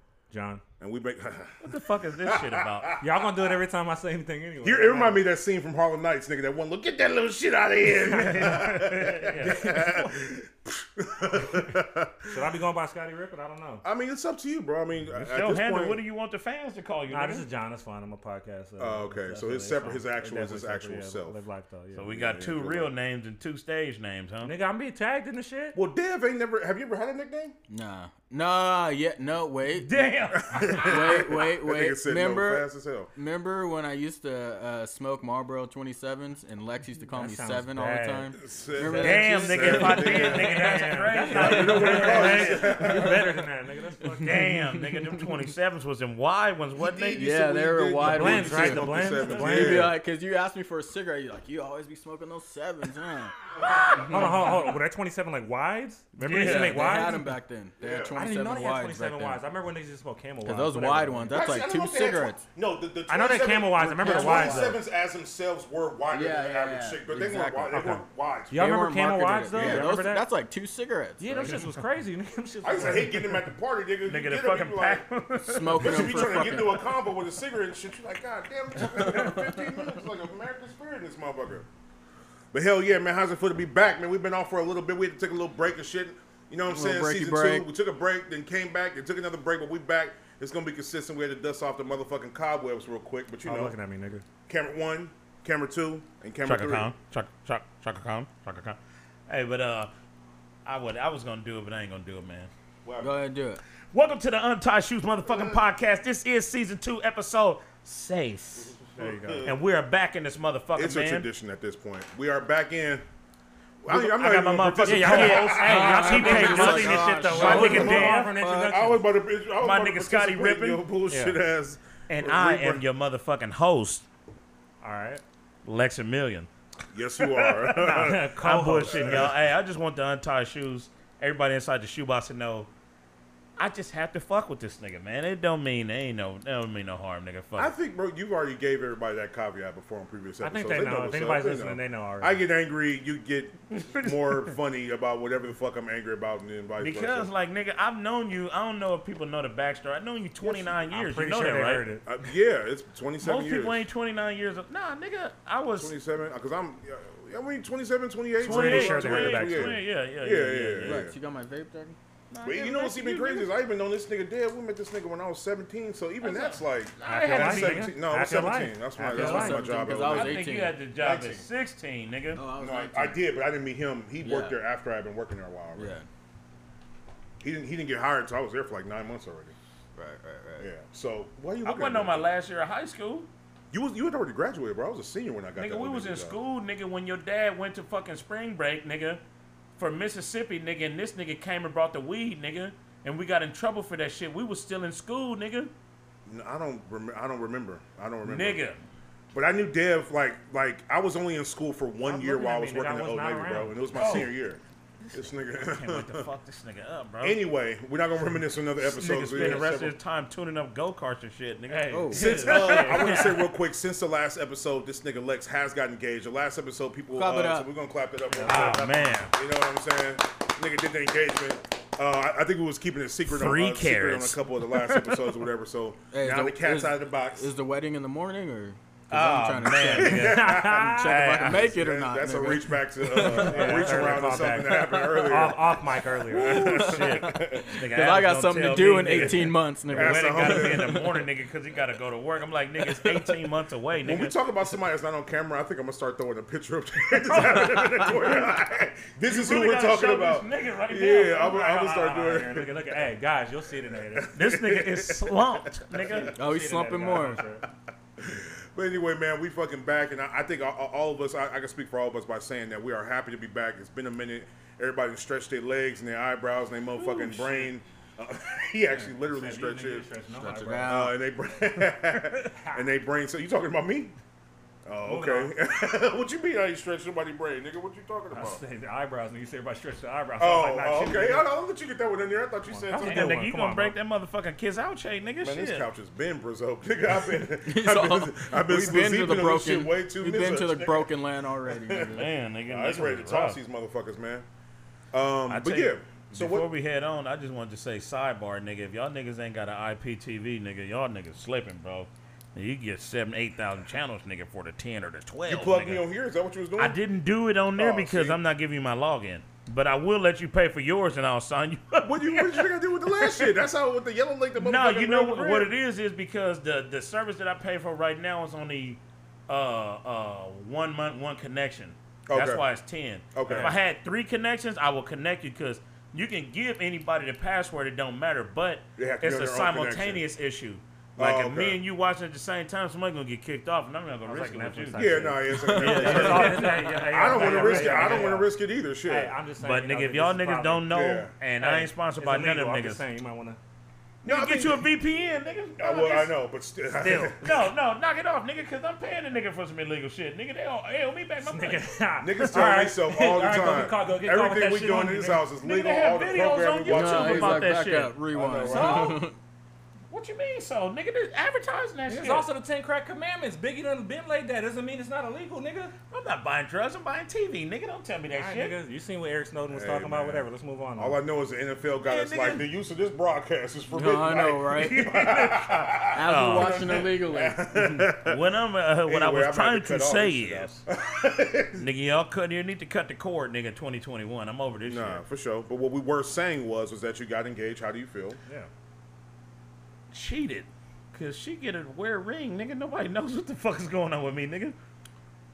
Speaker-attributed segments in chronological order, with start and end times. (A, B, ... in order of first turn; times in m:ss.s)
0:00.3-0:00.6 A
0:00.8-0:03.0 B
0:01.6-0:03.0 C
0:03.0-0:05.2 A
0:04.6-0:12.4 B
0:08.0-0:09.8 C
0:09.4-0:10.2 A
0:12.3-0:13.8 A
0:13.8-0:16.0 B
0:15.2-0:17.4 C
0:17.1-0:22.1 A
0:18.8-0:21.4 B
0:22.0-0:24.5 C
0:22.1-0:22.9 B
0:24.4-0:25.8 A
0:25.7-0:27.5 B
0:27.7-0:30.1 D
0:29.8-0:31.3 C
0:30.4-0:33.1 B
0:30.6-0:40.4 D
0:37.1-0:38.3 A
0:38.4-0:40.5 B
0:38.9-0:43.0 C
0:39.8-0:44.4 A
0:41.3-0:43.3 B
0:44.2-0:47.2 C
0:44.2-0:45.3 D
0:46.8-0:50.0 B
0:47.2-0:53.3 D
0:48.0-0:49.9 A
0:53.6-0:57.3 A
0:53.7-0:54.3 C
0:56.2-0:57.0 C
0:56.3-0:59.4 D
0:57.8-0:58.1 B
0:58.1-1:01.3 A
1:00.4-1:02.4 D
1:01.3-1:08.6 B
1:03.1-1:04.8 A
1:04.0-1:04.8 D
1:06.1-1:08.0 D
1:07.7-1:10.3 A
1:08.5-1:11.7 D
1:09.5-1:09.9 B
1:11.2-1:13.4 A
1:12.6-1:15.0 B
1:14.0-1:16.5 C
1:15.4-1:16.9 D
1:15.7-1:21.7 B
1:22.5-1:33.7 B
1:26.7-1:27.7 D
1:33.4-1:34.2 A
1:34.5-1:36.9 B
1:36.4-1:39.9 C
1:40.6-1:42.5 C
1:42.8-1:43.1 B
1:43.0-1:43.6 D
1:43.9-1:48.7 C
1:45.3-1:45.6 B
1:48.6-1:49.6 B
1:49.0-1:49.5 A
1:49.4-1:51.3 C
1:50.8-1:53.0 B
1:53.8-2:02.8 B
1:53.9-1:58.3 C
1:54.8-1:59.0 A
1:55.6-1:58.2 D
1:59.6-2:00.8 C
2:01.1-2:01.4 A
2:02.1-2:04.0 C
2:04.8-2:05.2 A
2:05.6-2:06.5 C
2:06.9-2:08.2 B
2:07.2-2:12.7 C
2:07.7-2:09.3 A
2:08.9-2:09.3 B
2:13.6-2:17.7 C
2:17.6-2:27.3 B
2:20.4-2:22.4 A
2:23.7-2:24.5 C
2:26.8-2:31.9 C
2:30.8-2:32.0 A
2:32.0-2:33.8 B
2:33.2-2:35.9 C
2:35.8-2:41.1 B
2:38.4-2:41.1 C
2:38.4-2:39.8 A
2:40.8-2:42.0 D
2:42.3-2:43.5 C
2:42.4-2:51.4 B
2:46.2-2:47.9 C
2:47.0-2:49.7 A
2:49.0-2:50.8 D
2:50.0-2:52.4 C
2:52.3-2:53.2 D
2:52.6-2:55.9 B
2:54.2-2:54.6 D
2:55.7-2:56.1 D
2:57.4-2:59.6 B
3:00.0-3:00.7 D
3:00.6-3:02.3 B
3:01.6-3:03.3 C
3:03.7-3:06.4 B
3:05.6-3:09.2 C
3:09.8-3:15.7 C
3:16.2-3:18.6 B
3:18.2-3:18.8 C
3:19.3-3:24.6 B
3:22.0-3:24.3 A
3:23.9-3:24.3 C
3:25.1-3:26.3 B
3:25.6-3:27.4 C
3:27.2-3:29.9 B
3:28.8-3:33.5 C
3:31.7-3:33.4 A
3:31.9-3:32.5 D
3:32.1-3:47.5 B
3:37.1-3:37.7 D
3:38.3-3:39.3 A
3:38.4-3:39.3 C
3:43.3-3:45.4 C
3:46.1-3:55.4 D
3:49.1-3:51.7 C
3:49.9-3:50.7 B
3:50.1-3:51.2 A
3:51.5-3:57.7 B
3:53.2-3:56.7 A
3:53.5-3:54.0 C
3:56.3-4:04.4 C
3:56.3-4:01.1 D
3:59.1-4:01.1 B
4:02.8-4:03.3 D
4:04.0-4:12.9 B
4:07.2-4:08.6 C
4:09.2-4:11.7 C
4:11.4-4:14.3 A
4:14.1-4:16.3 B
4:14.3-4:16.4 C
4:16.1-4:17.6 A
4:16.3-4:17.4 D
4:18.2-4:30.1 B
4:27.0-4:27.3 A
4:27.1-4:27.7 C
4:28.9-4:31.1 A
4:30.4-4:31.2 D
4:30.8-4:34.2 B
4:32.3-4:32.8 A
4:34.8-4:38.6 B
4:35.0-4:35.5 A
4:38.3-4:41.5 A
4:40.4-4:43.4 B
4:42.7-4:43.9 A
4:43.0-4:45.9 C
4:45.4-4:51.1 B
4:47.6-4:52.3 D
4:51.7-4:54.4 B
4:52.0-4:53.6 C
4:55.1-4:56.7 B
4:55.5-5:06.0 C
5:05.5-5:07.0 B
5:06.8-5:13.6 C
5:07.7-5:08.4 B
5:12.0-5:15.7 B
5:14.5-5:38.3 C
5:22.3-5:22.6 B
5:23.3-5:23.7 B
5:23.4-5:23.8 A
5:29.0-5:30.2 B
5:31.2-5:31.8 B
5:34.2-5:38.5 A
5:34.9-5:39.4 B
5:35.5-5:36.7 D
5:39.1-5:40.9 A
5:39.6-5:43.0 C
5:40.9-5:41.3 B
5:41.6-5:43.6 A
5:44.2-5:46.3 C
5:44.2-5:44.9 B
5:45.8-5:47.5 B
5:47.0-5:47.4 A
5:47.4-5:51.8 C
5:51.4-5:55.5 A
5:52.2-5:57.7 B
5:55.6-5:58.1 C
5:56.9-5:59.4 D
5:58.3-5:59.1 B
5:58.6-5:59.2 C
6:00.1-6:02.4 C
6:02.1-6:05.9 A
6:06.1-6:08.8 C
6:08.3-6:11.2 A
6:09.7-6:18.4 B
6:12.0-6:12.7 C
6:13.9-6:15.1 D
6:14.7-6:17.1 C
6:16.1-6:17.6 D
6:18.2-6:20.8 C
6:19.0-6:21.9 B
6:21.7-6:25.2 C
6:24.8-6:28.4 B
6:30.1-6:34.8 C